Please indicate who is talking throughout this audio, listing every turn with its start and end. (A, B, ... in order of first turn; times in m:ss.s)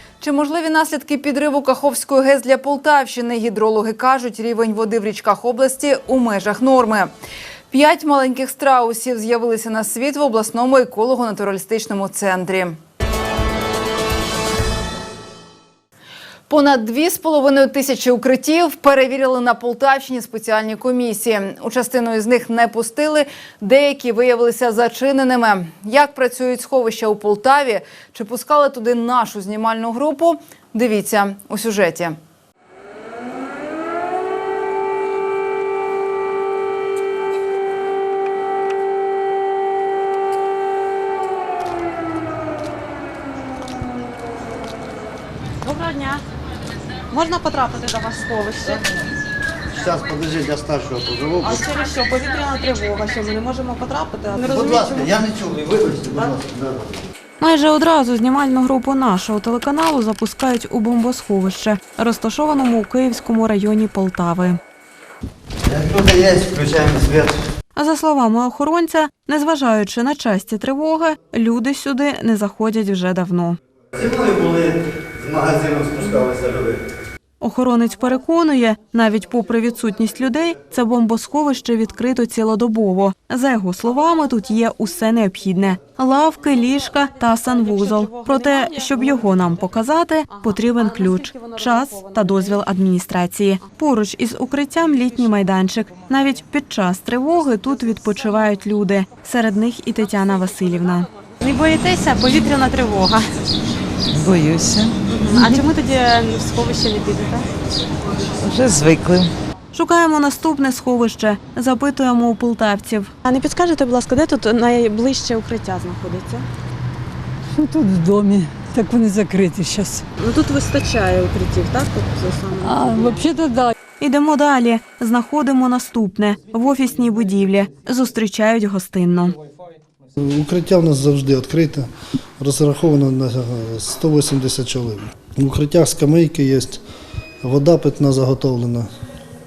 0:00.2-0:07.1 A
0:07.7-0:12.8 A
0:16.5-0:32.2 A
0:45.7-0:46.2 B
0:47.1-0:48.8 B
0:49.8-0:51.7 C
0:51.6-0:55.0 B
0:54.4-0:57.0 C
0:57.4-1:04.6 D
1:05.7-1:07.4 C
1:07.8-1:13.6 D
1:14.0-1:16.8 C
1:17.4-1:41.1 D
1:41.4-1:43.2 B
1:44.2-1:45.6 C
1:45.2-1:47.4 B
1:48.4-1:49.3 C
1:49.7-1:53.1 D
1:53.2-1:56.4 B
1:57.6-2:00.0 E
2:00.3-2:03.4 B
2:02.6-2:03.7 E
2:04.0-2:09.4 D
2:10.2-2:11.9 F
2:12.4-2:16.8 F
2:17.4-2:18.9 F